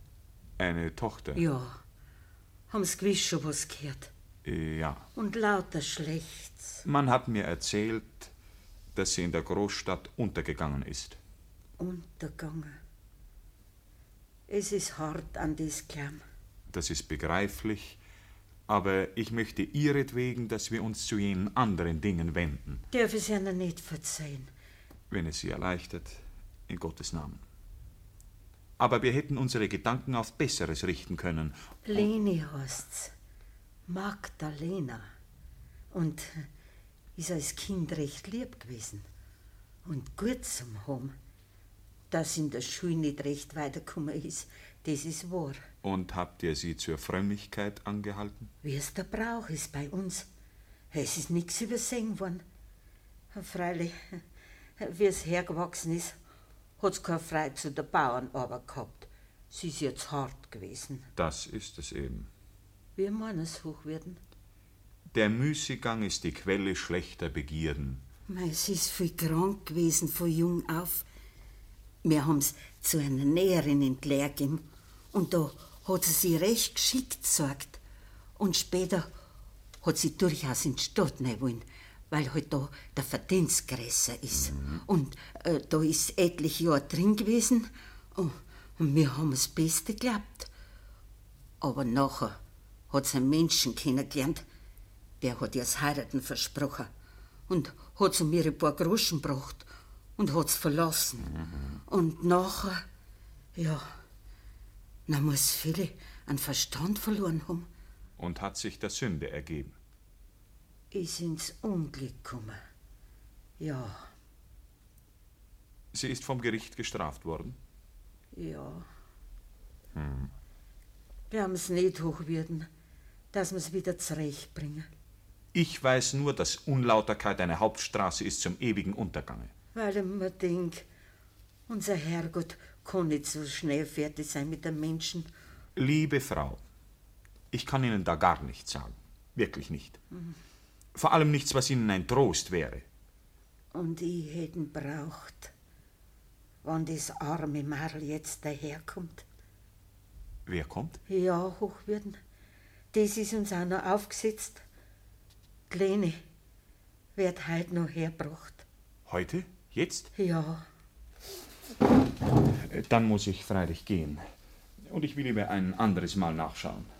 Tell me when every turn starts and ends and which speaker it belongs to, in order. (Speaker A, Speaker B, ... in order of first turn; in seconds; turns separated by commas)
Speaker A: 0.6-1.4, Speaker B: 1.3-1.8, Speaker B: 2.7-4.1, Speaker A: 4.4-5.0, Speaker B: 5.1-6.8, Speaker A: 6.8-8.3, Speaker A: 8.9-11.2, Speaker B: 11.8-12.8, Speaker B: 14.5-16.2, Speaker A: 16.7-18.0, Speaker A: 18.7-22.8, Speaker B: 22.9-24.5, Speaker A: 25.1-27.4, Speaker A: 28.8-31.6, Speaker B: 31.9-33.1, Speaker B: 33.9-35.1, Speaker B: 35.9-36.5, Speaker B: 37.1-39.0, Speaker B: 39.8-41.1, Speaker B: 42.1-45.6, Speaker A: 45.8-48.5, Speaker B: 48.6-50.3, Speaker B: 50.9-52.4, Speaker B: 53.3-54.2, Speaker B: 54.8-56.1, Speaker B: 56.8-61.1, Speaker A: 61.1-62.3, Speaker B: 63.0-64.2, Speaker A: 65.1-68.0, Speaker B: 68.3-71.0, Speaker B: 72.0-77.8, Speaker B: 78.4-79.1, Speaker B: 79.8-90.5, Speaker A: 84.5-84.8, Speaker B: 91.6-92.4, Speaker B: 92.9-94.4, Speaker B: 95.2-96.9, Speaker B: 97.5-102.8, Speaker B: 103.5-103.8, Speaker B: 105.1-107.7, Speaker A: 108.2-109.7, Speaker B: 110.9-112.6, Speaker B: 113.6-114.0, Speaker A: 115.9-117.6, Speaker B: 118.3-118.8, Speaker A: 119.9-120.3, Speaker B: 121.3-122.7, Speaker B: 123.3-124.9, Speaker A: 125.5-129.5, Speaker B: 129.7-130.8, Speaker B: 131.7-135.3, Speaker A: 135.8-136.6, Speaker A: 137.5-140.0, Speaker A: 140.9-142.8, Speaker B: 143.7-145.5, Speaker B: 146.6-149.2, Speaker A: 150.4-151.0, Speaker B: 151.1-152.2, Speaker B: 152.9-154.6, Speaker B: 155.7-156.2, Speaker B: 157.2-158.6, Speaker A: 159.1-160.1, Speaker B: 160.2-160.6, Speaker A: 162.6-164.2, Speaker A: 164.9-166.9